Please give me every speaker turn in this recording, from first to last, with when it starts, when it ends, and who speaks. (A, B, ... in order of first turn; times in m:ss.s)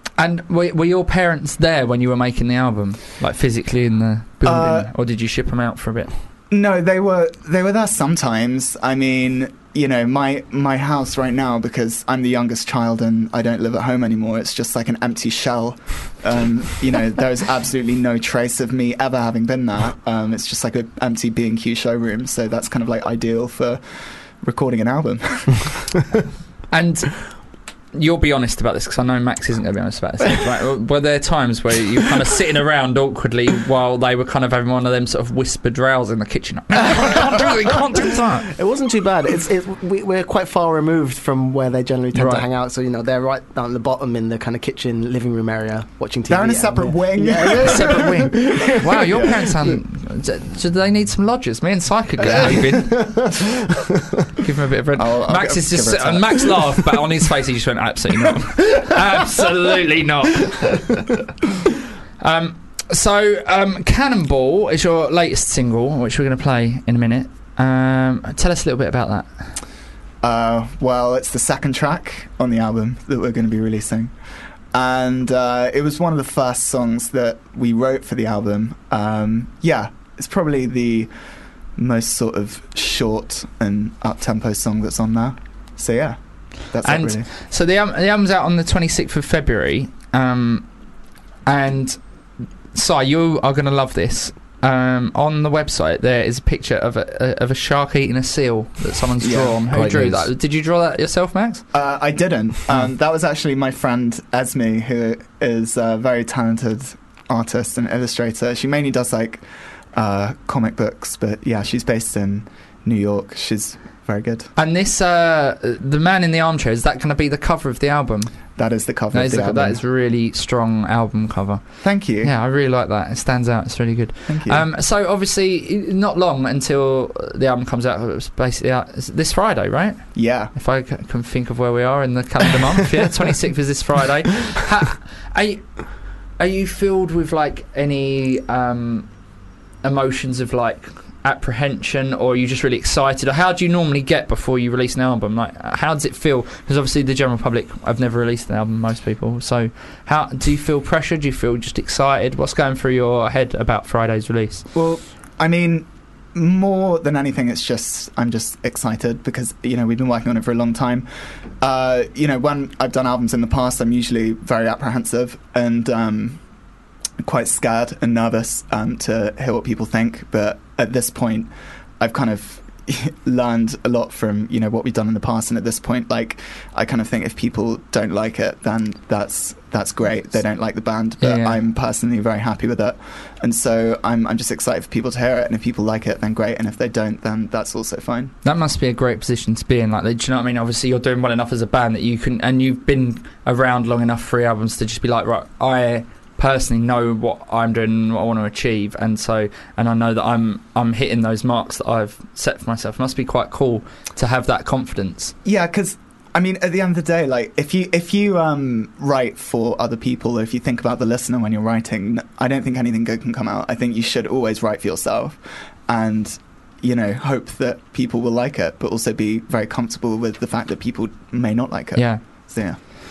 0:00.2-0:06.1 A
0:04.4-0:04.9 B
0:06.5-0:23.8 B
0:24.4-0:25.8 B
0:26.7-0:27.3 A
0:27.9-0:38.5 A
0:38.6-0:49.3 C
0:42.1-0:42.4 A
0:46.3-0:48.3 B
0:47.6-0:53.3 A
0:49.1-0:49.4 B
0:52.6-0:53.1 C
0:54.4-1:00.9 A
0:54.9-0:56.6 B
1:02.2-1:09.3 A
1:10.2-1:14.1 B
1:14.7-1:21.1 B
1:21.8-1:26.2 B
1:26.7-1:27.3 B
1:26.8-1:30.7 A
1:31.4-1:32.0 A
1:32.7-1:41.6 A
1:39.2-1:40.2 B
1:41.7-1:54.5 B
1:54.6-1:58.3 A
1:58.6-1:59.8 B
1:59.1-2:01.6 A
2:01.8-2:02.3 B
2:02.2-2:15.8 A
2:04.3-2:04.6 B
2:10.1-2:10.5 B
2:16.4-2:19.1 A
2:19.8-2:34.6 A
2:34.7-2:41.0 B
2:41.6-2:46.4 B
2:47.2-3:08.3 B
3:01.2-3:01.6 A
3:08.4-3:25.3 A
3:25.4-3:42.8 B
3:42.0-3:42.2 A